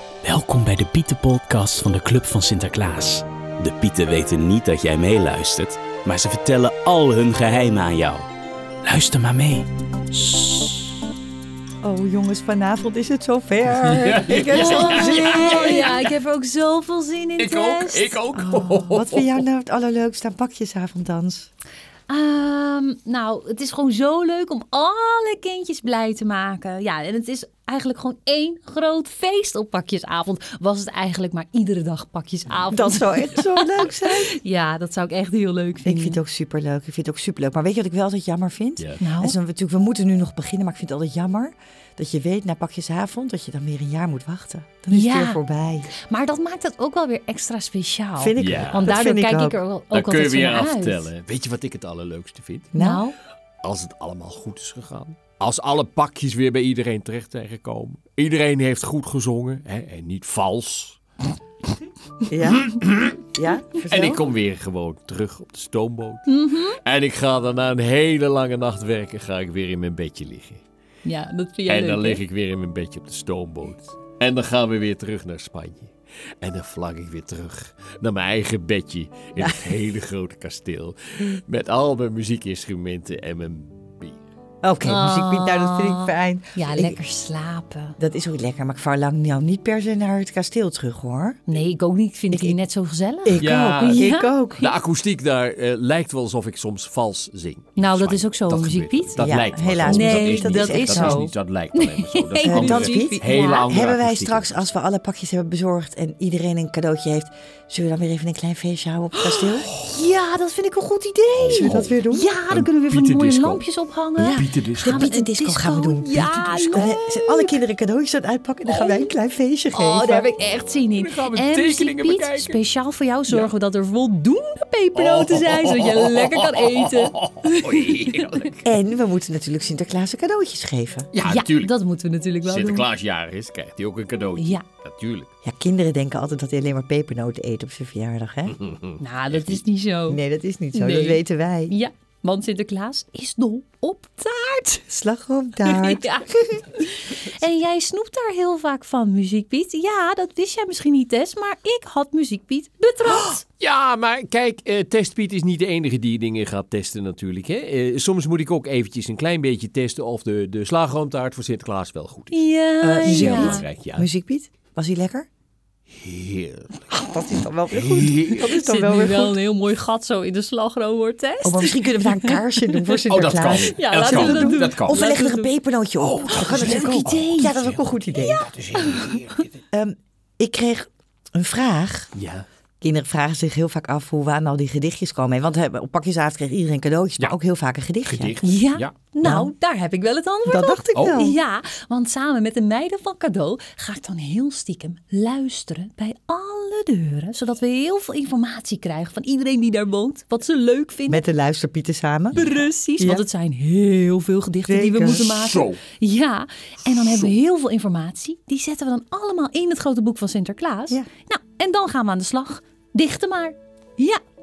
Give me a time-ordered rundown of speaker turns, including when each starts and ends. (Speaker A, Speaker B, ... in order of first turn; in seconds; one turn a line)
Speaker A: 0.2-8.3
Speaker A: 8.8-10.8
Speaker B: 11.8-16.0
Speaker C: 14.0-16.1
Speaker D: 14.4-18.2
Speaker C: 17.4-19.4
Speaker B: 18.3-21.5
Speaker D: 22.1-36.2
Speaker B: 32.7-34.4
Speaker B: 35.9-45.9
Speaker D: 39.0-39.4
Speaker D: 44.9-45.4
Speaker D: 45.9-51.1
Speaker B: 48.2-49.6
Speaker C: 48.4-48.9
Speaker C: 49.9-52.7
Speaker B: 52.7-53.1
Speaker D: 52.8-53.1
Speaker C: 53.6-61.0
Speaker B: 62.3-62.7
Speaker C: 62.7-63.2
Speaker B: 63.3-64.2
Speaker C: 63.9-70.6
Speaker D: 66.3-66.8
Speaker D: 71.0-72.2
Speaker C: 71.7-84.2
Speaker B: 84.6-87.0
Speaker D: 84.8-88.0
Speaker B: 88.0-91.4
Speaker D: 91.5-94.4
Speaker B: 92.3-92.6
Speaker B: 93.2-94.7
Speaker C: 93.4-104.6
Speaker D: 97.8-99.2
Speaker B: 99.2-101.3
Speaker D: 99.8-103.7
Speaker B: 102.4-109.7
Speaker D: 109.2-117.5
Speaker C: 111.3-113.6
Speaker B: 111.5-112.3
Speaker C: 114.2-115.1
Speaker B: 114.2-120.3
Speaker C: 116.2-116.9
Speaker D: 118.7-119.1
Speaker D: 119.7-128.0
Speaker C: 121.0-122.6
Speaker C: 125.0-128.7
Speaker B: 128.6-131.1
Speaker C: 131.1-131.7
Speaker D: 131.3-132.9
Speaker C: 132.4-135.3
Speaker D: 134.4-134.7
Speaker B: 135.4-138.6
Speaker C: 138.5-139.6
Speaker D: 139.0-140.2
Speaker B: 140.1-141.7
Speaker D: 140.7-144.9
Speaker B: 144.9-146.3
Speaker D: 145.6-153.4
Speaker C: 153.1-162.5
Speaker D: 162.3-163.7
Speaker B: 162.8-165.3
Speaker C: 163.0-164.1
Speaker C: 166.0-166.9
Speaker B: 166.9-169.4
Speaker C: 167.7-168.5
Speaker D: 168.4-173.0
Speaker B: 171.4-178.5
Speaker C: 173.1-175.1
Speaker D: 173.6-175.5
Speaker C: 176.0-177.8
Speaker D: 176.3-177.6
Speaker D: 178.1-179.5
Speaker C: 178.5-179.5
Speaker B: 179.7-182.1
Speaker C: 182.2-182.4
Speaker B: 182.8-188.3
Speaker C: 188.1-188.9
Speaker D: 188.4-201.2
Speaker B: 189.2-189.5
Speaker B: 190.4-191.4
Speaker C: 190.9-191.2
Speaker B: 201.1-202.4
Speaker D: 202.3-214.2
Speaker B: 203.0-203.2
Speaker B: 204.7-205.3
Speaker C: 205.0-205.8
Speaker C: 206.9-207.3